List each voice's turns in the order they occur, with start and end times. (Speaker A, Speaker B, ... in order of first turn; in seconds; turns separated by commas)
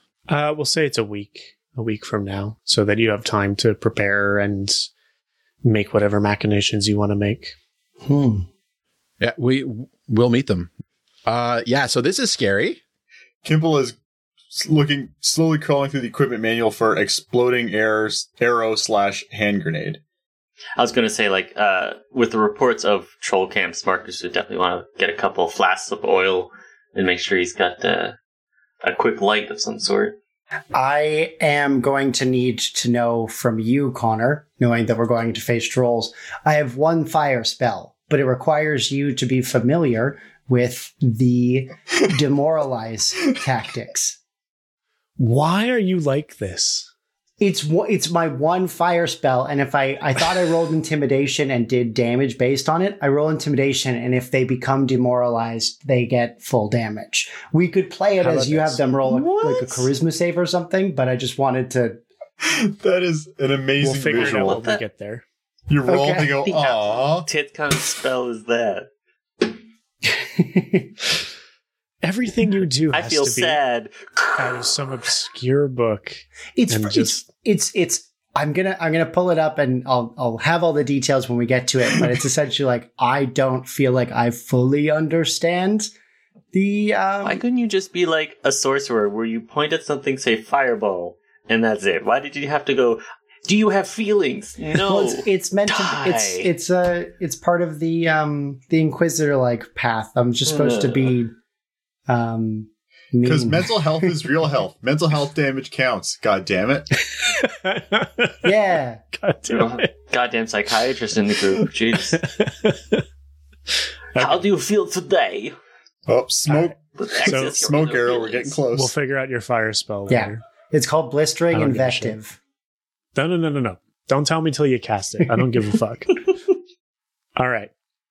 Speaker A: 0.3-4.9, Speaker A: 5.6-7.5, Speaker B: 8.1-8.5, Speaker C: 9.2-10.7, Speaker C: 11.3-12.8, Speaker D: 13.4-13.9, Speaker D: 14.5-20.0, Speaker E: 20.8-28.2, Speaker E: 28.8-30.2, Speaker B: 30.7-44.2, Speaker A: 45.2-46.9, Speaker B: 47.4-62.0, Speaker A: 58.2-58.9, Speaker A: 59.4-59.8, Speaker D: 62.4-64.6, Speaker A: 63.8-65.2, Speaker E: 64.1-64.8, Speaker D: 65.7-67.3, Speaker B: 65.9-66.4, Speaker E: 66.4-68.9, Speaker B: 70.1-70.9, Speaker A: 72.0-73.6, Speaker E: 72.9-74.6, Speaker A: 74.4-77.2, Speaker B: 76.6-85.9, Speaker B: 86.5-87.4, Speaker E: 87.2-96.5, Speaker B: 94.7-101.3, Speaker E: 100.5-101.1, Speaker B: 102.1-103.7, Speaker D: 103.2-106.9, Speaker A: 107.1-108.5, Speaker B: 108.4-109.0, Speaker A: 109.2-109.9, Speaker E: 109.5-112.2, Speaker A: 112.2-113.0, Speaker A: 114.2-114.4, Speaker E: 114.2-115.5, Speaker D: 116.1-118.9, Speaker E: 116.8-118.6, Speaker A: 117.3-117.7, Speaker A: 118.7-120.4, Speaker B: 120.1-122.4, Speaker A: 121.5-122.2, Speaker A: 123.2-126.2, Speaker A: 127.4-127.7